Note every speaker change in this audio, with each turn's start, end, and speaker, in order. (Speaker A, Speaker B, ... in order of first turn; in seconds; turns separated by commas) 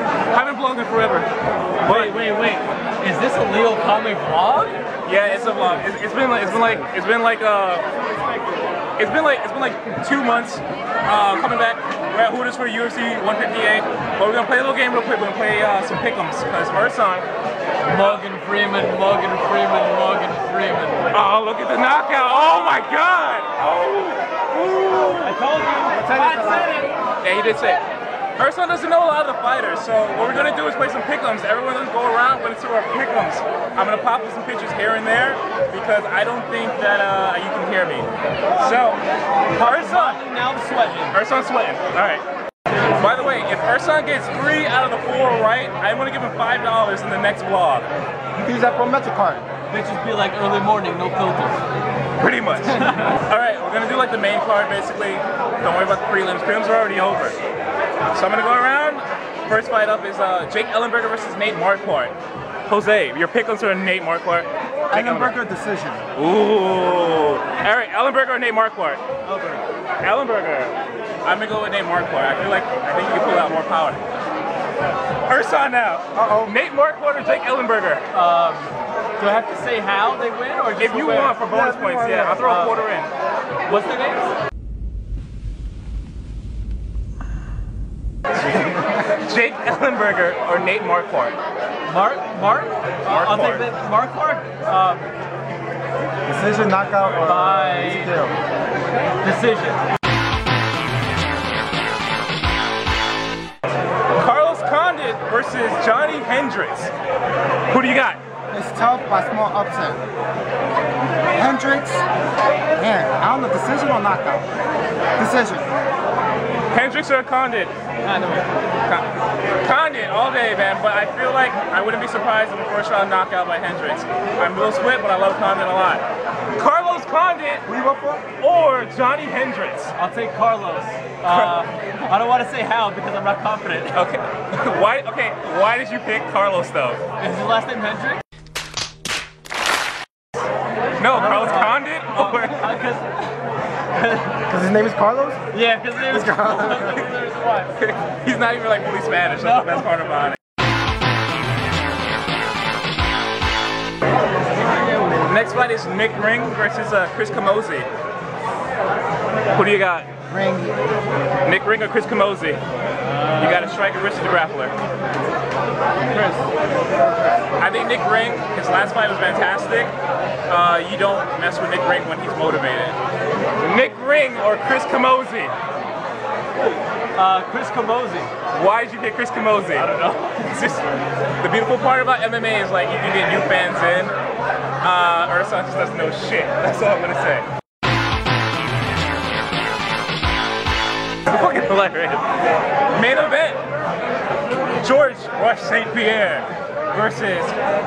Speaker A: 0.3-1.3, Speaker A: 1.8-2.1, Speaker B: 1.8-4.8, Speaker A: 5.0-7.8, Speaker A: 9.0-17.2, Speaker B: 17.9-21.2, Speaker A: 21.1-25.3, Speaker B: 25.2-26.9, Speaker C: 25.9-26.8, Speaker A: 27.2-27.8, Speaker A: 28.4-39.0, Speaker B: 39.5-41.1, Speaker A: 39.6-40.2, Speaker A: 41.1-42.2, Speaker A: 43.0-47.9, Speaker C: 48.3-49.4, Speaker B: 49.7-51.6, Speaker A: 52.2-57.4, Speaker B: 52.8-53.1, Speaker A: 58.1-62.1, Speaker A: 62.6-65.3, Speaker C: 64.9-66.0, Speaker A: 66.2-69.0, Speaker B: 69.2-69.6, Speaker A: 70.0-74.0, Speaker A: 75.3-78.0, Speaker C: 76.2-76.5, Speaker B: 78.1-81.4, Speaker A: 80.8-83.1, Speaker C: 81.5-82.4, Speaker B: 82.3-82.8, Speaker B: 83.7-84.3, Speaker A: 88.9-91.4, Speaker B: 91.9-95.1, Speaker A: 93.1-93.7, Speaker C: 96.2-98.3, Speaker B: 97.2-98.2, Speaker B: 99.2-99.8, Speaker A: 104.2-106.9, Speaker A: 107.7-108.2, Speaker C: 108.5-110.0, Speaker C: 111.3-112.0, Speaker C: 112.8-114.5, Speaker C: 115.2-115.7, Speaker A: 116.7-117.7, Speaker B: 118.0-118.5, Speaker A: 119.6-126.0, Speaker A: 126.5-127.6, Speaker C: 127.7-128.3, Speaker A: 128.4-129.9, Speaker B: 129.9-134.0, Speaker A: 131.2-131.7, Speaker A: 133.9-137.0, Speaker B: 137.2-138.2, Speaker A: 141.0-142.8, Speaker B: 141.0-143.4, Speaker B: 143.9-144.4, Speaker C: 144.5-145.4, Speaker B: 145.5-147.7, Speaker C: 146.0-147.0, Speaker A: 147.8-150.4, Speaker B: 149.4-149.9, Speaker A: 155.2-157.9, Speaker A: 159.5-160.1, Speaker C: 160.3-160.7, Speaker A: 161.4-162.6, Speaker B: 163.1-163.7, Speaker A: 163.4-164.8, Speaker B: 166.1-166.4, Speaker A: 167.6-169.9, Speaker A: 170.5-173.0, Speaker A: 173.6-175.5, Speaker B: 177.1-178.3, Speaker A: 178.5-180.8, Speaker B: 179.7-180.6, Speaker A: 181.4-184.1, Speaker A: 184.8-187.4, Speaker A: 191.3-192.2, Speaker A: 192.9-193.6, Speaker A: 194.8-197.6